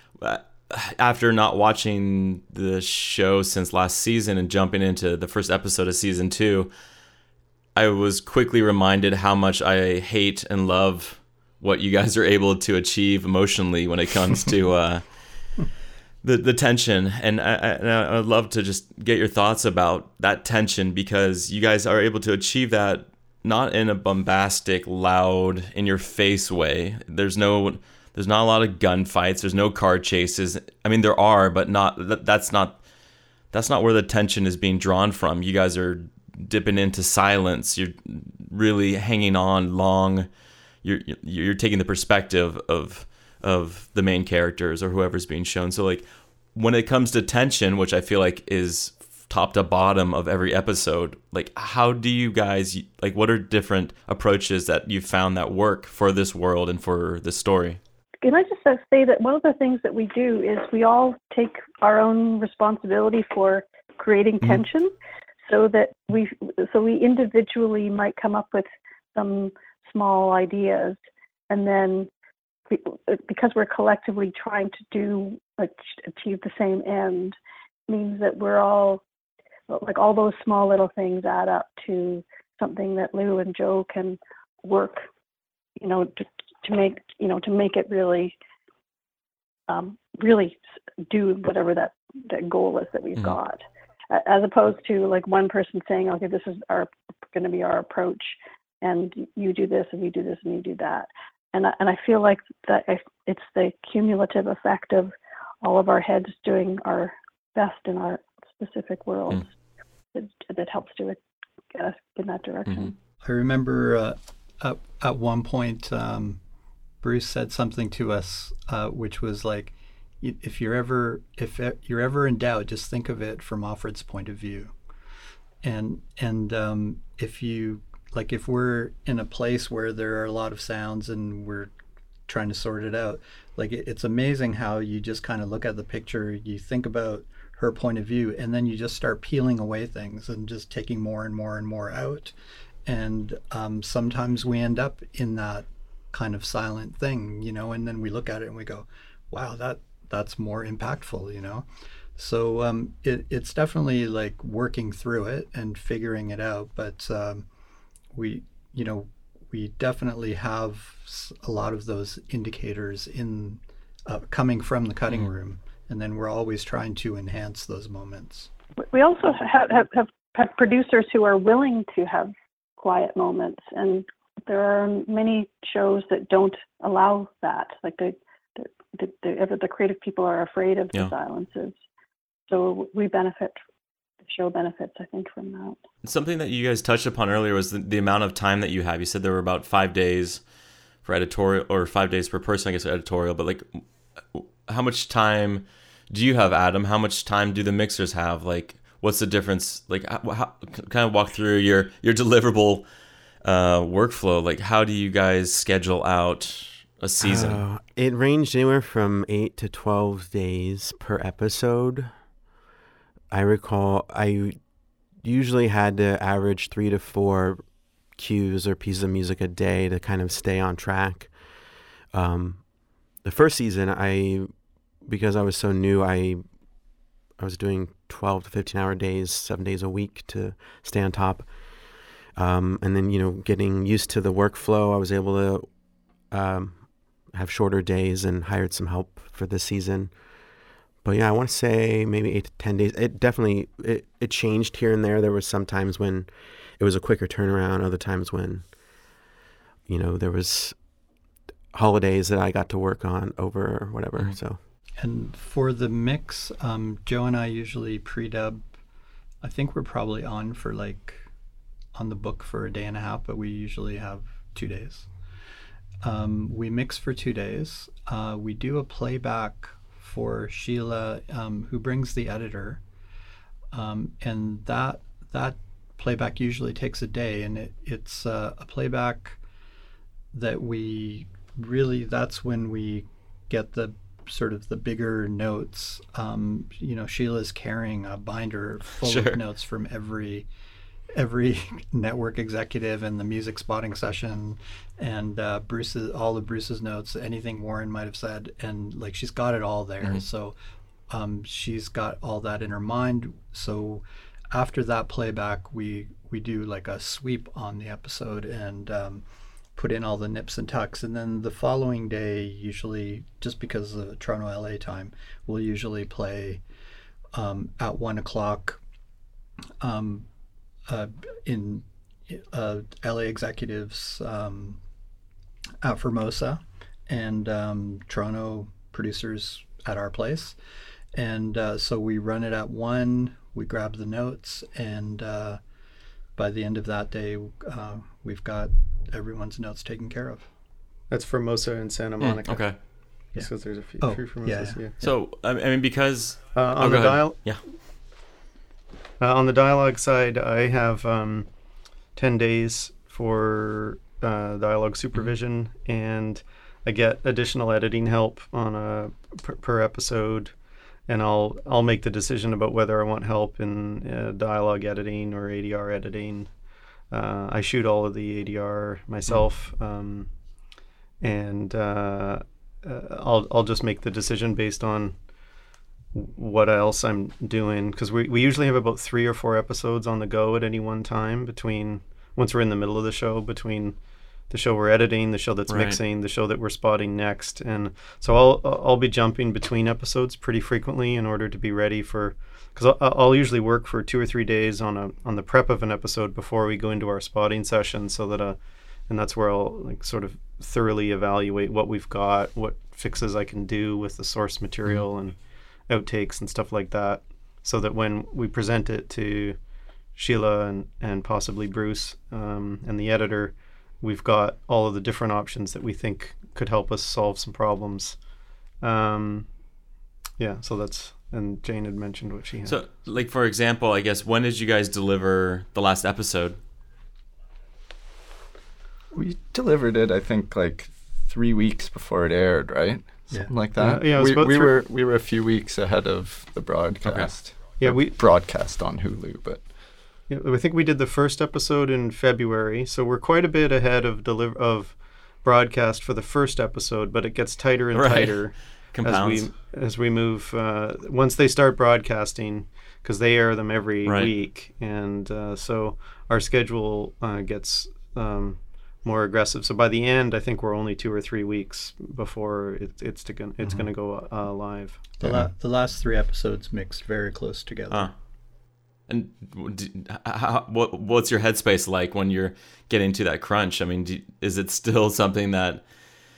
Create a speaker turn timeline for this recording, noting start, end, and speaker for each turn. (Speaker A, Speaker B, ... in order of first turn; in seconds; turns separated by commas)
Speaker A: 0.2-6.7, Speaker A: 7.8-15.1, Speaker A: 16.2-32.8, Speaker A: 33.5-40.3, Speaker A: 40.8-57.8, Speaker B: 58.2-64.9, Speaker B: 65.5-71.0, Speaker B: 71.5-72.1, Speaker B: 72.7-77.3, Speaker B: 77.9-79.0, Speaker B: 79.7-85.0, Speaker B: 85.8-88.3, Speaker B: 89.7-109.5, Speaker B: 110.1-111.2, Speaker B: 111.7-112.9, Speaker C: 113.2-116.4, Speaker C: 117.0-124.7, Speaker C: 125.6-131.7, Speaker C: 132.3-142.3, Speaker C: 142.8-157.5, Speaker C: 158.1-168.5, Speaker B: 168.8-181.8, Speaker B: 182.5-183.6, Speaker B: 184.3-185.8, Speaker A: 186.0-190.4, Speaker A: 191.0-193.8, Speaker A: 194.3-202.8, Speaker A: 203.4-207.6, Speaker D: 207.2-212.1, Speaker D: 213.3-214.6, Speaker D: 215.2-221.3, Speaker D: 222.1-222.7, Speaker D: 223.2-224.5, Speaker D: 225.0-226.4, Speaker D: 227.4-231.5, Speaker D: 232.3-235.7, Speaker D: 236.3-240.1, Speaker D: 241.0-248.7, Speaker D: 249.9-250.8, Speaker D: 251.7-254.6, Speaker C: 255.0-258.7, Speaker C: 259.4-261.3, Speaker C: 261.9-265.1, Speaker C: 266.0-272.8, Speaker C: 273.7-279.4, Speaker C: 280.3-290.5, Speaker A: 289.0-289.4, Speaker C: 291.1-300.6, Speaker C: 301.1-309.2, Speaker C: 309.8-316.6, Speaker C: 317.3-318.8, Speaker C: 319.8-320.3, Speaker C: 320.9-324.8, Speaker C: 325.8-330.6, Speaker C: 331.1-335.6, Speaker C: 336.4-340.5, Speaker E: 341.1-342.8, Speaker A: 342.2-342.8, Speaker E: 343.3-345.0, Speaker C: 343.3-345.1, Speaker A: 345.0-347.6, Speaker E: 346.5-347.5, Speaker E: 349.2-351.5, Speaker E: 352.1-360.5, Speaker E: 361.1-366.5, Speaker E: 367.1-370.3, Speaker E: 371.2-375.1, Speaker E: 376.1-383.9, Speaker E: 384.5-398.6, Speaker A: 385.7-386.0, Speaker E: 399.1-405.4, Speaker E: 405.9-409.6, Speaker E: 410.1-418.2, Speaker E: 418.8-419.5, Speaker E: 420.4-422.8, Speaker A: 422.6-426.6, Speaker F: 429.1-439.6, Speaker E: 433.8-434.7, Speaker A: 437.0-437.3, Speaker E: 437.8-438.2, Speaker E: 440.3-465.1, Speaker A: 447.9-449.5, Speaker A: 454.0-454.3, Speaker C: 463.6-463.9, Speaker C: 465.2-468.1, Speaker A: 469.1-475.8